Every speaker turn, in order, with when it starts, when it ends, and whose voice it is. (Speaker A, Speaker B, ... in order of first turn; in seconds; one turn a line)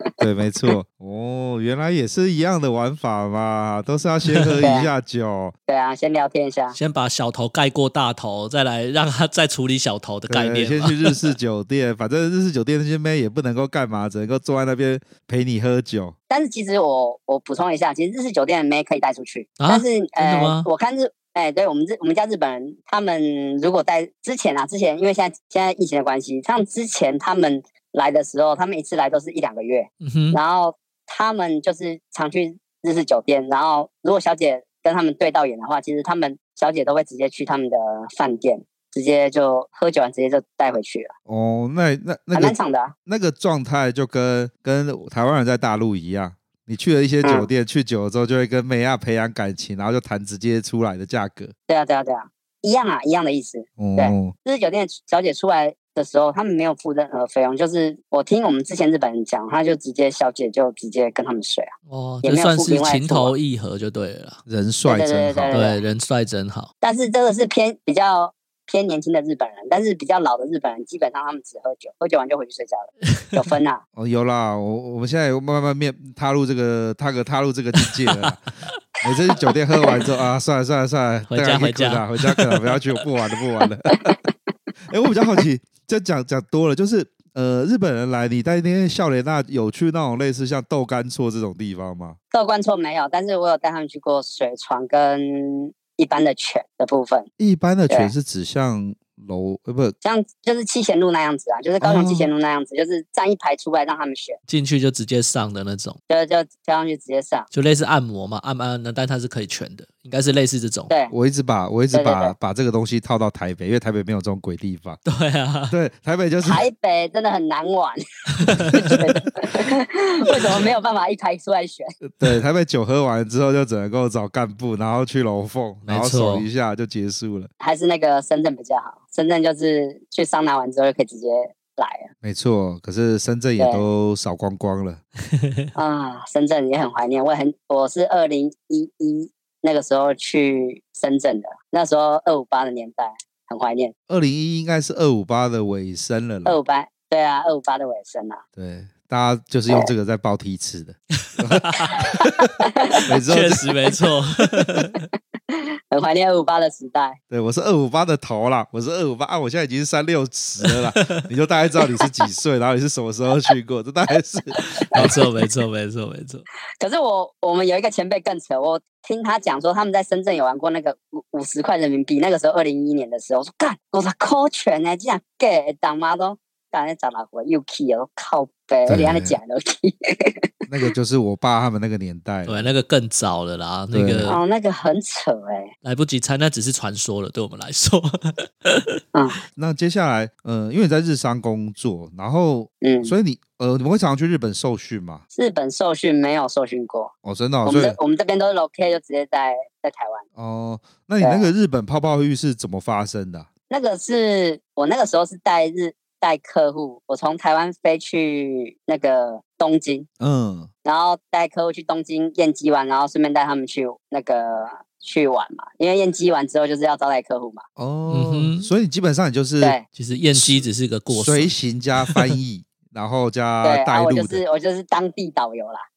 Speaker A: 0.2-5.5
Speaker B: 4.3-4.6
Speaker C: 4.6-4.9
Speaker C: 5.7-6.8
Speaker B: 6.7-11.3
Speaker A: 10.3-16.1
Speaker C: 16.3-41.1
Speaker B: 19.6-20.7
Speaker B: 30.0-30.4
Speaker A: 41.3-42.5
Speaker C: 42.3-42.9
Speaker A: 43.0-51.5
Speaker C: 47.2-47.5
Speaker C: 51.7-61.7
Speaker A: 53.8-54.3
Speaker B: 61.9-64.4
Speaker C: 62.2-63.3
Speaker A: 64.5-65.5
Speaker C: 64.9-65.8
Speaker B: 65.5-66.7
Speaker C: 66.8-73.8
Speaker A: 74.0-78.4
Speaker B: 77.8-78.3
Speaker A: 79.0-84.2
Speaker B: 81.3-82.8
Speaker A: 84.9-92.2
Speaker C: 92.3-97.3
Speaker A: 97.4-99.9
Speaker C: 100.0-104.4
Speaker A: 101.8-102.3
Speaker B: 104.5-106.0
Speaker C: 106.1-107.5
Speaker B: 107.5-110.9
Speaker A: 111.1-115.0
Speaker C: 111.9-112.3
Speaker B: 115.0-115.8
Speaker A: 115.7-116.6
Speaker C: 116.4-121.9
Speaker B: 118.4-119.0
Speaker A: 122.2-127.5
Speaker B: 125.8-126.5
Speaker C: 127.6-132.1
Speaker A: 132.2-135.0
Speaker C: 133.6-133.8
Speaker B: 135.3-135.6
Speaker C: 135.7-143.9
Speaker A: 144.1-146.6
Speaker C: 146.4-148.4
Speaker A: 148.6-152.4
Speaker B: 151.3-152.1
Speaker C: 152.6-153.0
Speaker A: 153.1-154.0
Speaker B: 153.3-155.0
Speaker C: 155.5-157.2
Speaker A: 157.3-165.1
Speaker B: 160.7-161.2
Speaker B: 164.9-166.4
Speaker C: 166.8-180.4
Speaker A: 178.9-179.3
Speaker A: 180.7-182.7
Speaker B: 182.4-184.4
Speaker A: 183.9-184.3
Speaker C: 184.3-185.7
Speaker B: 185.8-188.9
Speaker A: 189.6-195.2
Speaker C: 192.8-193.1
Speaker C: 195.3-197.1
Speaker A: 197.2-198.0
Speaker C: 197.6-200.2
Speaker A: 200.3-203.5
Speaker C: 201.2-201.5
Speaker C: 203.7-210.1
Speaker A: 210.2-210.7
Speaker C: 210.8-217.6
Speaker A: 217.8-219.8
Speaker B: 218.1-218.7
Speaker B: 219.9-222.3
Speaker A: 220.3-224.4
Speaker C: 223.6-225.8